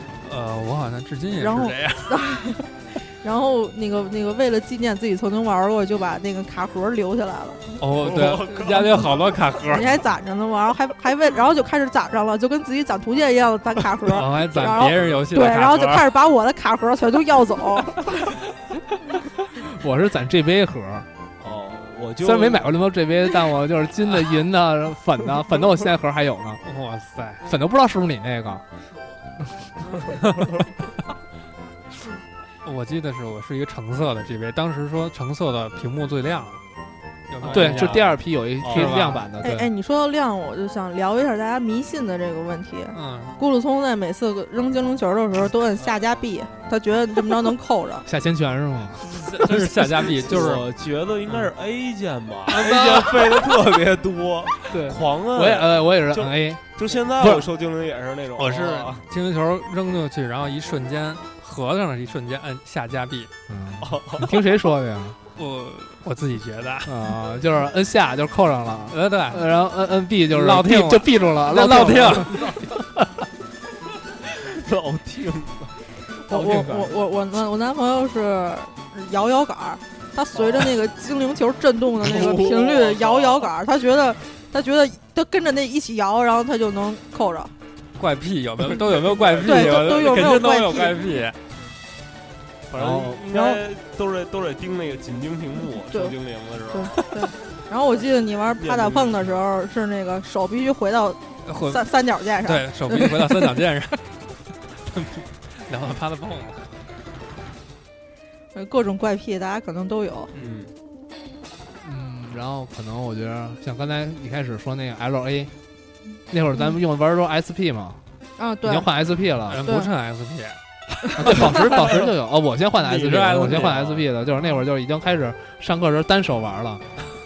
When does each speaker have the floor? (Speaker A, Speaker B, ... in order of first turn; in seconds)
Speaker A: 0.2-2.2, 7.8-10.0, 14.1-16.1, 26.6-27.5, 30.1-30.5, 32.6-36.6, 37.3-39.3, 42.9-43.4, 49.0-50.6, 58.4-63.3, 65.3-67.0, 68.9-69.5, 70.3-72.6, 76.3-76.7, 88.0-91.4, 101.4-101.9, 102.4-104.0, 104.8-106.7, 110.3-110.7, 119.5-122.1, 122.8-124.1
Speaker B: 1.3-7.6, 9.7-18.3, 39.4-48.0, 76.2-87.5, 89.4-91.0, 93.3-93.6, 96.7-103.5, 108.5-110.3, 118.4-118.9
Speaker C: 7.9-9.4, 21.4-22.7, 37.4-37.7, 38.6-39.0, 49.5-59.0, 63.8-64.3, 74.2-75.8, 80.3-80.7, 82.0-83.5, 88.7-90.3, 92.7-97.0, 98.6-99.3, 110.3-110.7
Speaker D: 19.6-21.1, 22.2-26.6, 27.4-28.6, 29.4-29.7, 37.4-39.7, 48.0-49.7, 52.6-53.2, 54.7-57.5, 63.5-65.2, 66.8-72.7, 76.4-76.9, 92.7-93.3, 111.8-115.5, 116.3-118.0, 118.6-119.7, 121.2-126.9